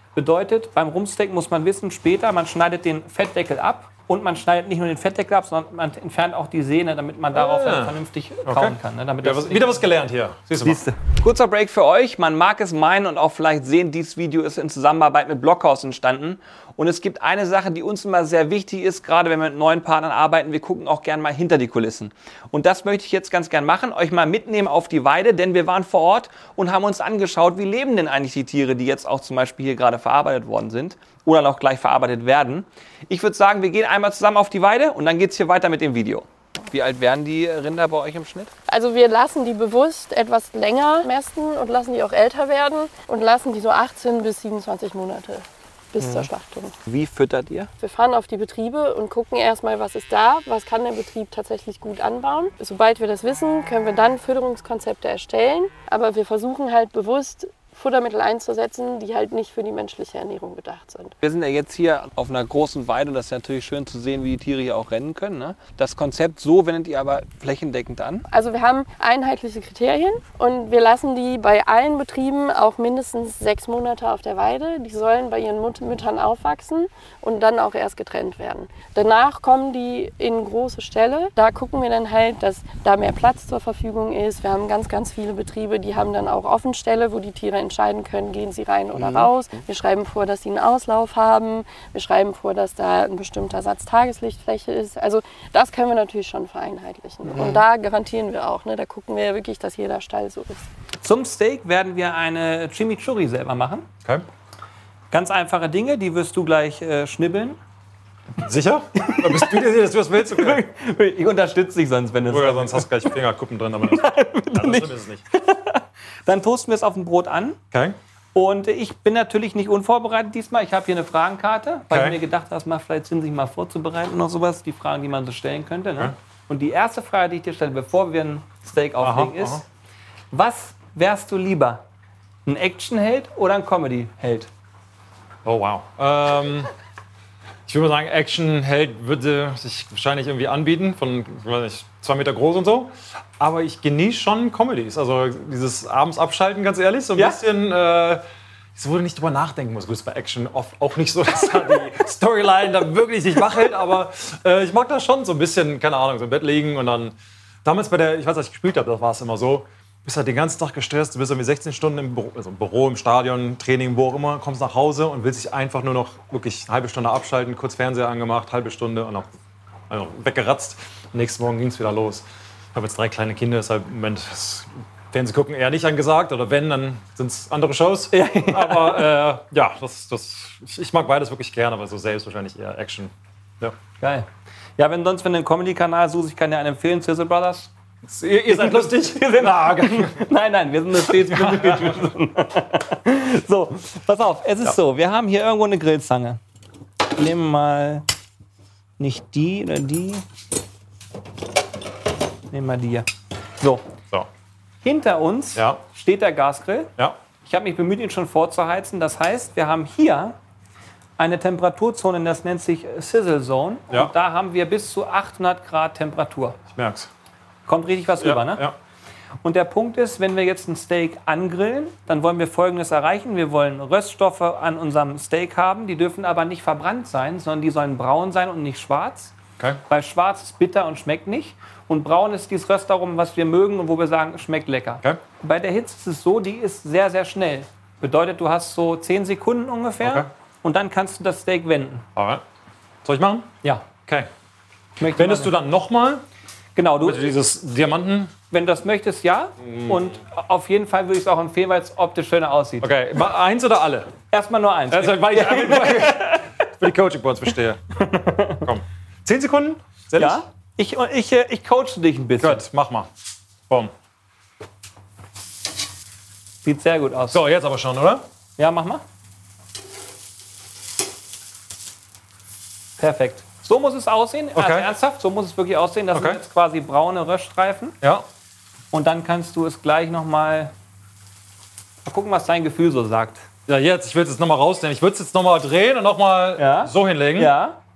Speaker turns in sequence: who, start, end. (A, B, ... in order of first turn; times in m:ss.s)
0:00.2-0:09.8 A
0:07.3-0:10.8 B
0:10.6-0:38.5 A
0:38.7-0:46.8 C
0:46.0-0:46.3 A
0:46.9-0:47.7 A
0:47.8-1:01.2 C
1:01.2-1:08.3 A
1:08.3-1:40.6 C
1:41.0-1:43.9 A
1:45.1-1:47.6 A
1:48.4-1:50.6 B
1:49.0-1:53.1 A
1:52.3-1:55.2 B
1:53.9-1:57.6 A
1:57.7-1:58.0 B
1:58.4-2:09.6 A
2:01.9-2:02.2 B
2:09.0-2:09.6 B
2:10.3-2:11.8 A
2:12.5-2:14.5 A
2:15.4-2:16.7 B
2:17.7-2:28.2 B
2:28.8-2:49.4 B
2:49.9-3:03.8 B
2:58.1-2:59.1 A
3:04.0-3:07.7 A
3:08.0-3:10.2 B
3:08.5-3:16.4 A
3:10.9-3:12.1 B
3:17.0-3:18.1 A
3:19.0-3:20.2 A
3:22.5-3:23.1 A
3:24.8-3:26.9 A
3:25.6-3:25.8 B
3:27.4-3:30.4 A
3:31.2-3:36.6 A
3:36.8-3:37.1 B
3:37.7-3:38.7 A
3:38.2-3:38.8 B
3:39.4-3:49.3 A
3:49.9-4:02.1 A
4:00.0-4:00.3 B
4:02.2-4:02.4 B
4:03.0-4:03.5 B
4:03.6-4:03.9 A
4:05.0-4:05.5 A
4:05.1-4:06.2 B
4:06.8-4:07.3 A
4:07.0-4:08.3 B
4:08.5-4:12.9 A
4:09.6-4:10.1 B
4:12.8-4:14.1 B
4:14.3-4:16.5 A
4:14.9-4:17.8 B
4:18.0-4:18.7 A
4:18.6-4:20.4 B
4:20.2-4:22.6 A
4:22.4-4:23.1 B
4:26.6-4:27.4 A
4:27.3-4:28.2 B
4:28.6-4:29.0 A
4:33.0-4:38.0 A
4:34.6-4:34.9 B
4:36.1-4:36.4 B
4:38.9-4:40.7 A
4:42.0-4:43.5 A
4:43.7-4:47.5 B
4:46.6-4:47.8 A